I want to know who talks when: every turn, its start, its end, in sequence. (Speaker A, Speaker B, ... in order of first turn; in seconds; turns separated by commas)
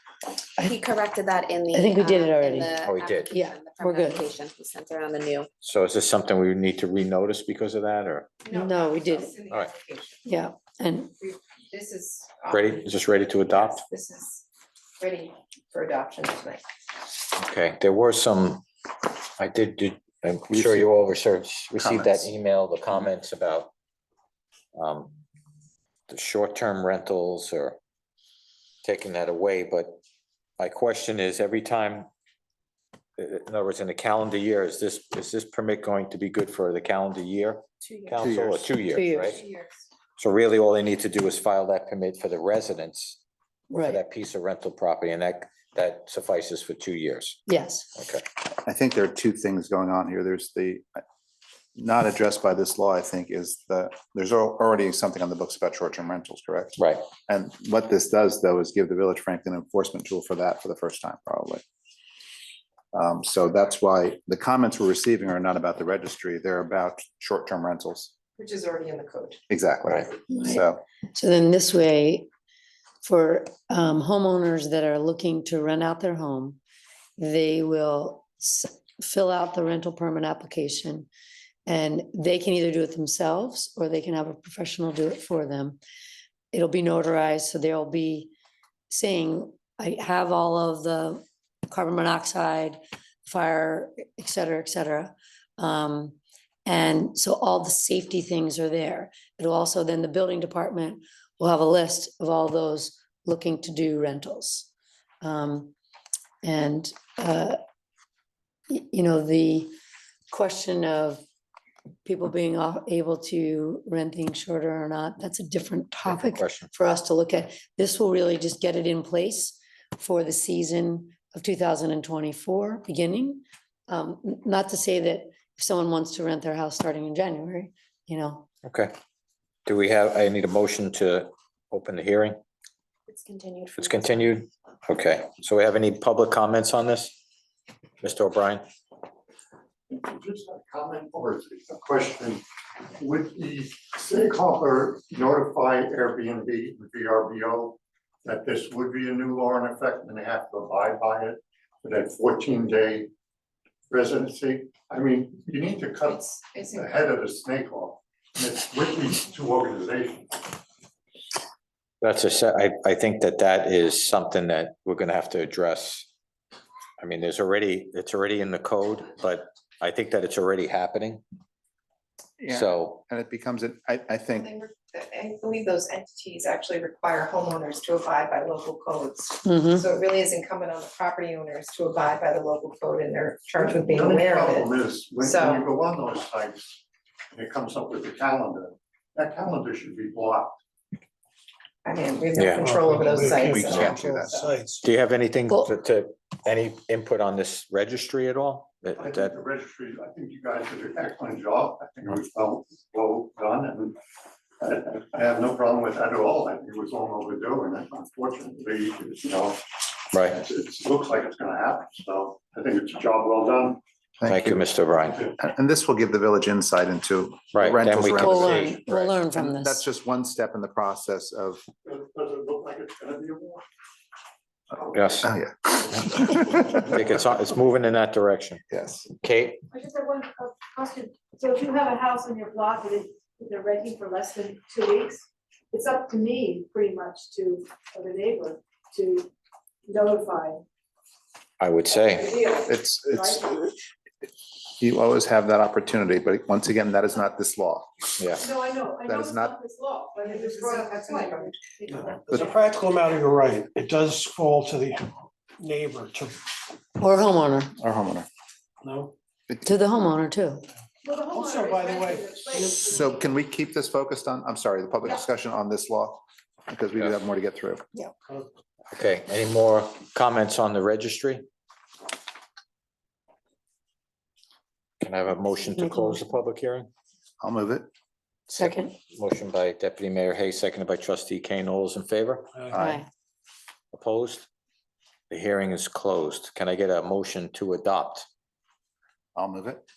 Speaker A: 0.6-5.5, Speaker B: 1.7-4.3, Speaker C: 2.8-3.3, Speaker C: 5.6-8.3, Speaker D: 8.4-10.3, Speaker B: 8.5-9.3, Speaker B: 10.2-11.1, Speaker D: 11.2-14.4, Speaker C: 12.5-13.8, Speaker D: 15.0-16.6, Speaker C: 17.4-18.6, Speaker C: 19.4-23.7, Speaker E: 20.5-20.9, Speaker E: 21.8-22.3, Speaker C: 24.7-25.1, Speaker C: 26.1-27.8, Speaker C: 28.8-30.0, Speaker C: 30.6-32.1, Speaker C: 33.2-39.4, Speaker D: 37.9-38.4, Speaker E: 38.2-38.7, Speaker B: 38.9-39.4, Speaker D: 39.1-39.9, Speaker C: 40.2-43.2, Speaker B: 43.7-44.0, Speaker C: 43.8-48.2, Speaker B: 47.5-47.9, Speaker E: 48.6-51.0, Speaker E: 51.8-61.6, Speaker C: 56.8-57.0, Speaker E: 62.9-68.1, Speaker D: 68.4-69.4, Speaker E: 69.5-70.8, Speaker B: 70.3-72.3, Speaker B: 73.0-76.6, Speaker B: 77.2-81.1, Speaker B: 81.7-85.8, Speaker B: 86.5-88.3, Speaker B: 88.9-104.7, Speaker B: 105.2-105.7, Speaker B: 106.4-107.6, Speaker B: 108.7-109.7, Speaker B: 110.3-111.2, Speaker B: 112.0-128.5, Speaker C: 116.1-116.7, Speaker C: 128.6-128.9, Speaker C: 129.7-132.4, Speaker D: 133.1-134.1, Speaker C: 133.8-137.1, Speaker C: 138.0-138.7, Speaker F: 139.9-142.4, Speaker F: 143.0-153.1, Speaker F: 153.9-160.6, Speaker D: 156.1-156.9, Speaker C: 162.0-166.1, Speaker C: 167.0-171.2, Speaker E: 172.4-174.5, Speaker C: 172.5-173.0, Speaker D: 174.3-185.7, Speaker B: 179.4-179.9, Speaker F: 183.6-186.8, Speaker F: 187.3-190.6, Speaker D: 191.8-194.0, Speaker C: 192.4-192.6, Speaker G: 192.5-194.9, Speaker E: 193.5-194.4, Speaker C: 194.8-199.3, Speaker F: 199.0-204.0, Speaker F: 204.6-213.8, Speaker C: 210.1-210.4, Speaker E: 214.2-214.7, Speaker C: 214.3-215.3, Speaker E: 215.4-221.6, Speaker C: 217.5-219.0, Speaker B: 218.2-219.8, Speaker F: 221.8-223.7, Speaker C: 224.9-225.3, Speaker E: 225.2-226.8, Speaker C: 226.8-228.6, Speaker E: 228.7-229.1, Speaker C: 229.2-229.6, Speaker H: 229.7-239.3, Speaker H: 239.9-240.6, Speaker C: 241.6-242.4, Speaker H: 242.1-243.4, Speaker E: 242.7-243.7, Speaker E: 244.8-247.9, Speaker C: 248.2-248.5, Speaker H: 248.4-252.2, Speaker E: 249.0-249.6, Speaker D: 250.2-252.2, Speaker G: 251.9-256.4, Speaker B: 257.0-257.7, Speaker E: 257.8-258.3, Speaker G: 258.8-259.1, Speaker B: 259.6-260.6, Speaker H: 261.0-263.2, Speaker G: 261.3-262.9, Speaker E: 262.7-267.9, Speaker C: 268.9-271.5, Speaker C: 275.0-276.9, Speaker B: 275.7-276.3, Speaker E: 277.4-277.9, Speaker B: 278.5-278.9, Speaker C: 278.6-282.5, Speaker E: 282.7-283.0, Speaker B: 282.8-283.1, Speaker C: 283.9-284.5, Speaker C: 285.3-288.3, Speaker E: 289.4-289.8